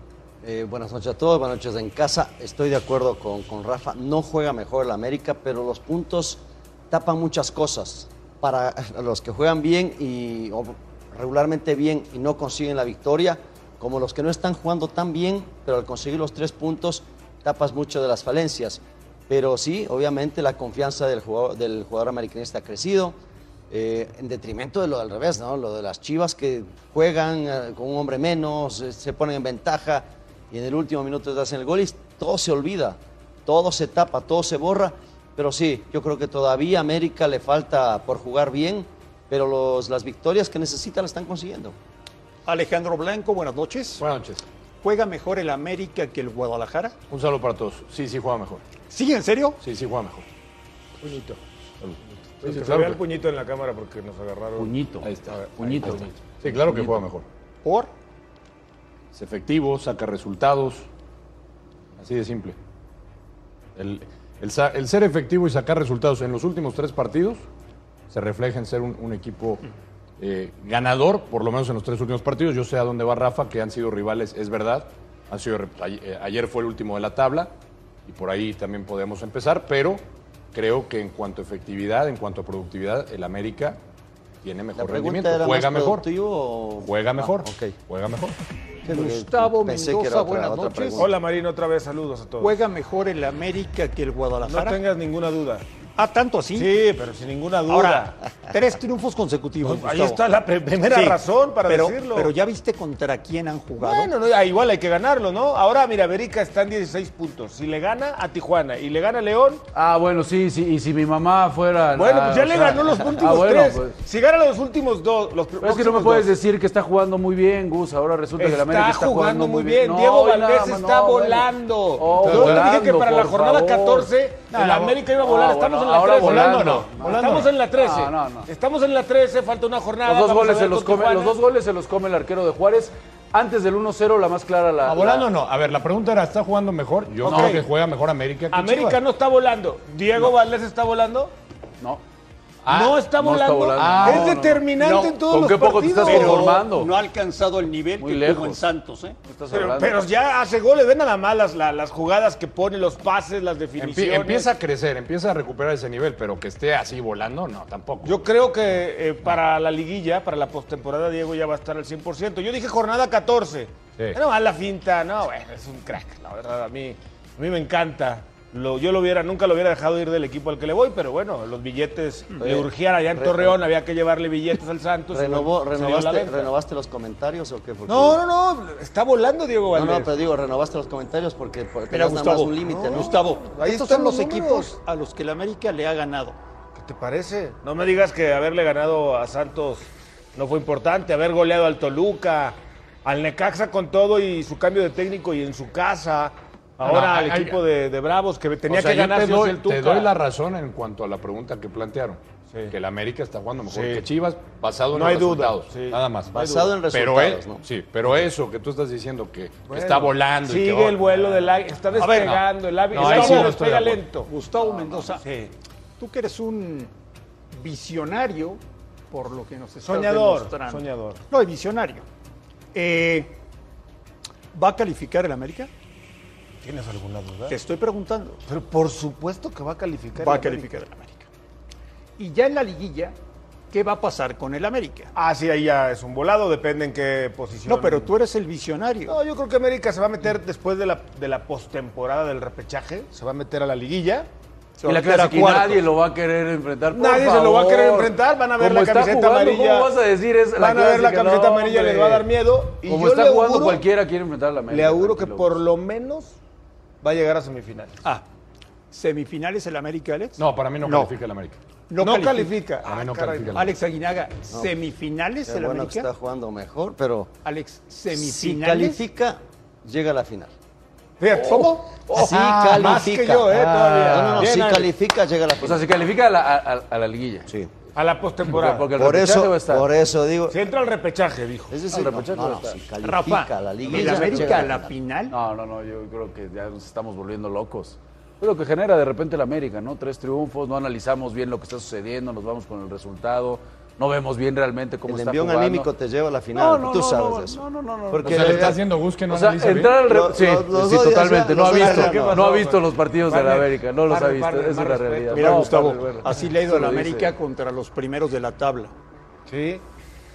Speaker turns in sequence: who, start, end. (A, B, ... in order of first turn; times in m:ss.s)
0:00.4-0:23.2 A
0:23.7-0:41.7 A
0:42.4-0:44.0 B
0:44.0-0:44.4 C
0:44.8-0:46.9 B
0:47.1-0:48.6 C
0:48.9-0:49.6 B
0:49.6-0:50.2 C
0:51.0-0:53.0 C
0:52.4-0:54.7 D
0:54.6-0:56.1 E
0:55.0-0:57.2 C
0:55.6-0:56.0 D
0:56.6-0:57.0 E
0:57.6-0:57.9 B
0:59.1-1:00.9 C
1:02.0-1:02.6 C
1:03.8-1:07.4 C
1:08.1-1:09.6 C
1:10.2-1:17.5 C
1:18.0-1:20.0 C
1:20.5-1:23.8 C
1:24.4-1:26.0 C
1:24.8-1:27.8 A
1:26.8-1:28.3 C
1:28.8-1:31.2 A
1:28.9-1:31.0 B
1:31.0-1:32.6 D
1:32.4-1:34.8 B
1:34.4-1:35.6 D
1:36.0-1:36.7 B
1:36.5-1:38.2 D
1:37.7-1:40.2 B
1:39.6-1:42.3 D
1:40.9-1:44.1 B
1:43.8-1:49.6 D
1:49.7-1:54.0 E
1:51.9-1:56.3 D
1:55.6-2:04.1 E
1:58.4-2:11.4 D
2:02.0-2:02.8 C
2:04.5-2:05.0 C
2:05.1-2:08.5 E
2:06.2-2:07.5 C
2:10.0-2:15.3 E
2:14.8-2:19.0 C
2:17.2-2:17.6 E
2:17.2-2:17.7 D
2:18.5-2:21.3 D
2:22.6-2:23.0 C
2:22.7-2:26.7 D
2:23.0-2:26.9 E
2:23.8-2:24.4 C
2:24.8-2:25.2 B
2:26.0-2:29.2 B
2:28.0-2:28.6 E
2:29.2-2:30.0 E
2:29.5-2:34.5 D
2:33.8-2:38.2 C
2:38.0-2:56.5 D
2:53.1-2:53.6 A
2:55.1-2:58.2 A
2:57.9-3:00.1 D
2:59.7-3:03.2 A
3:01.9-3:06.4 B
3:02.6-3:04.7 D
3:06.7-3:20.2 D
3:16.8-3:17.6 C
3:18.7-3:22.2 C
3:22.7-3:26.3 C
3:23.7-3:24.1 D
3:24.9-3:26.7 D
3:26.3-3:27.6 A
3:26.9-3:31.4 C
3:29.7-3:34.3 D
3:32.0-3:32.4 B
3:32.0-3:34.0 C
3:32.9-3:33.6 B
3:34.2-3:35.2 B
3:35.2-3:35.5 D
3:36.0-3:36.9 B
3:37.5-3:38.6 B
3:39.1-3:42.0 B
3:39.8-3:41.2 D
3:42.7-3:43.3 B
3:44.5-3:45.7 B
3:46.6-3:47.5 D
3:47.5-3:48.4 B
3:48.5-3:50.7 D
3:50.2-3:51.3 B
3:52.2-3:53.1 B
3:53.7-3:55.1 B
3:55.1-3:58.1 D
3:57.7-3:59.2 B
3:59.1-4:04.3 D
4:04.8-4:05.9 B
4:04.8-4:12.3 E
4:06.9-4:09.9 D
4:10.6-4:13.8 D
4:12.8-4:15.6 E
4:14.7-4:16.4 D
4:17.0-4:18.0 D
4:18.9-4:21.1 B
4:20.4-4:21.6 C
4:21.9-4:22.6 B
4:22.0-4:23.7 D
4:22.8-4:23.7 C
4:23.5-4:26.1 B
4:25.4-4:27.3 A
4:27.4-4:29.0 B
4:28.1-4:30.5 A
4:31.2-4:34.9 D
4:31.3-4:31.8 B
4:32.1-4:35.9 A
4:35.6-4:37.5 E
4:38.0-4:38.9 D
4:38.4-4:39.9 E
4:38.9-4:40.6 A
4:40.5-4:41.8 D
4:41.7-4:44.9 A
4:41.9-4:42.8 E
4:43.0-4:45.3 B
4:43.9-4:44.6 D
4:45.3-4:55.9 E
4:55.0-4:58.8 A
4:56.5-5:07.3 E
4:58.2-5:00.0 C
5:00.0-5:02.4 A
5:01.5-5:06.0 D
5:05.3-5:08.9 B
5:09.5-5:09.8 D